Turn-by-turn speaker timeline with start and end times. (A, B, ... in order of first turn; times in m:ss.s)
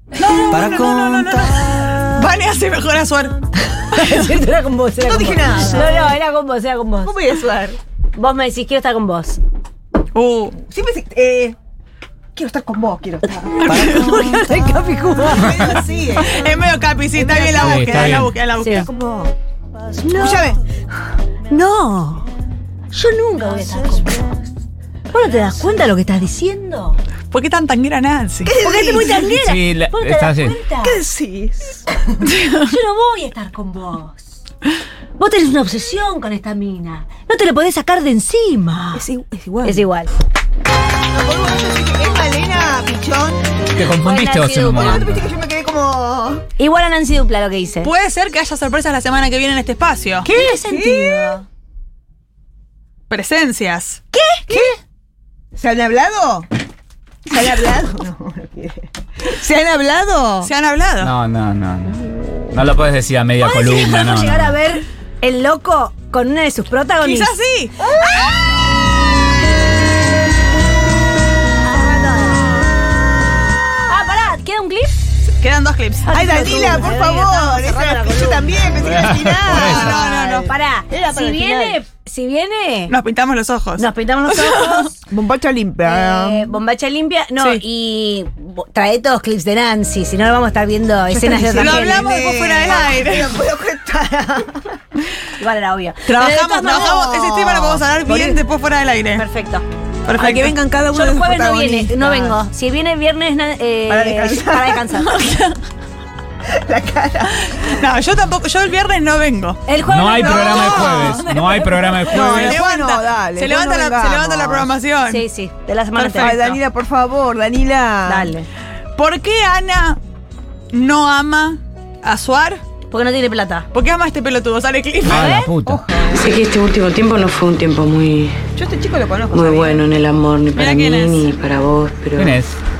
0:00.2-0:03.3 A
0:03.9-0:07.2 B
0:05.0-0:06.1 C
0:07.0-0:07.8 C
0:08.2-0:09.4 B
0:10.1-0:10.6 A
0:10.6-0:11.6 C
0:12.3-0:14.0 C
0:13.6-0:15.8 B
0:13.6-0:14.2 A
0:15.3-0:16.5 C
0:16.2-0:18.8 A
0:17.1-0:19.3 C
0:17.6-0:18.3 D
0:18.6-0:18.8 B
0:20.0-0:20.4 B
0:20.2-0:20.6 C
0:21.5-0:22.3 B
0:22.9-0:24.3 B
0:25.1-0:27.0 B
0:27.3-0:28.5 A
0:28.4-0:29.3 C
0:28.6-0:31.0 B
0:29.4-0:30.6 D
0:30.8-0:31.8 C
0:32.3-0:32.7 A
0:32.5-0:34.3 B
0:35.2-0:39.0 B
0:38.9-0:39.8 C
0:39.6-0:40.1 B
0:41.1-0:43.4 C
0:43.8-0:45.2 D
0:44.0-0:45.0 B
0:44.7-0:46.4 C
0:46.6-0:47.9 B
0:47.8-0:50.3 A
0:50.2-0:51.4 B
0:50.4-0:51.4 C
0:53.1-0:54.0 A
0:54.1-0:54.8 B
0:54.5-0:54.7 C
0:55.5-0:56.5 C
0:57.3-1:00.5 C
1:00.4-1:01.1 A
1:01.0-1:04.6 D
1:03.4-1:07.3 B
1:07.0-1:07.7 A
1:07.8-1:08.6 C
1:11.6-1:12.5 B
1:13.9-1:15.0 B
1:15.4-1:16.1 A
1:16.0-1:18.6 B
1:16.1-1:21.8 C
1:18.8-1:20.0 D
1:19.4-1:20.5 A
1:20.4-1:22.9 B
1:22.9-1:24.9 A
1:23.8-1:25.0 B
1:25.1-1:26.4 C
1:25.8-1:32.0 B
1:31.1-1:34.6 C
1:31.6-1:33.4 A
1:35.4-1:37.0 B
1:36.0-1:39.2 A
1:36.8-1:38.4 C
1:39.2-1:39.6 B
1:40.0-1:40.6 A
1:40.2-1:42.4 C
1:40.9-1:45.1 B
1:43.9-1:44.8 C
1:45.0-1:45.6 A
1:46.5-1:47.7 C
1:47.6-1:49.6 A
1:49.7-1:52.4 B
1:49.8-1:52.6 D
1:50.2-1:51.2 A
1:52.1-1:54.7 C
1:52.4-1:55.2 A
1:55.1-1:56.4 B
1:56.0-1:56.6 A
1:56.2-1:58.3 C
1:58.1-1:58.5 B
1:59.0-2:00.0 A
2:00.7-2:02.6 A
2:02.9-2:03.7 B
2:03.7-2:05.3 A
2:05.1-2:05.8 D
2:05.1-2:05.5 B
2:05.6-2:06.4 C
2:06.0-2:08.4 E
2:08.6-2:09.8 C
2:09.3-2:12.4 E
2:10.5-2:11.3 A
2:12.2-2:12.6 D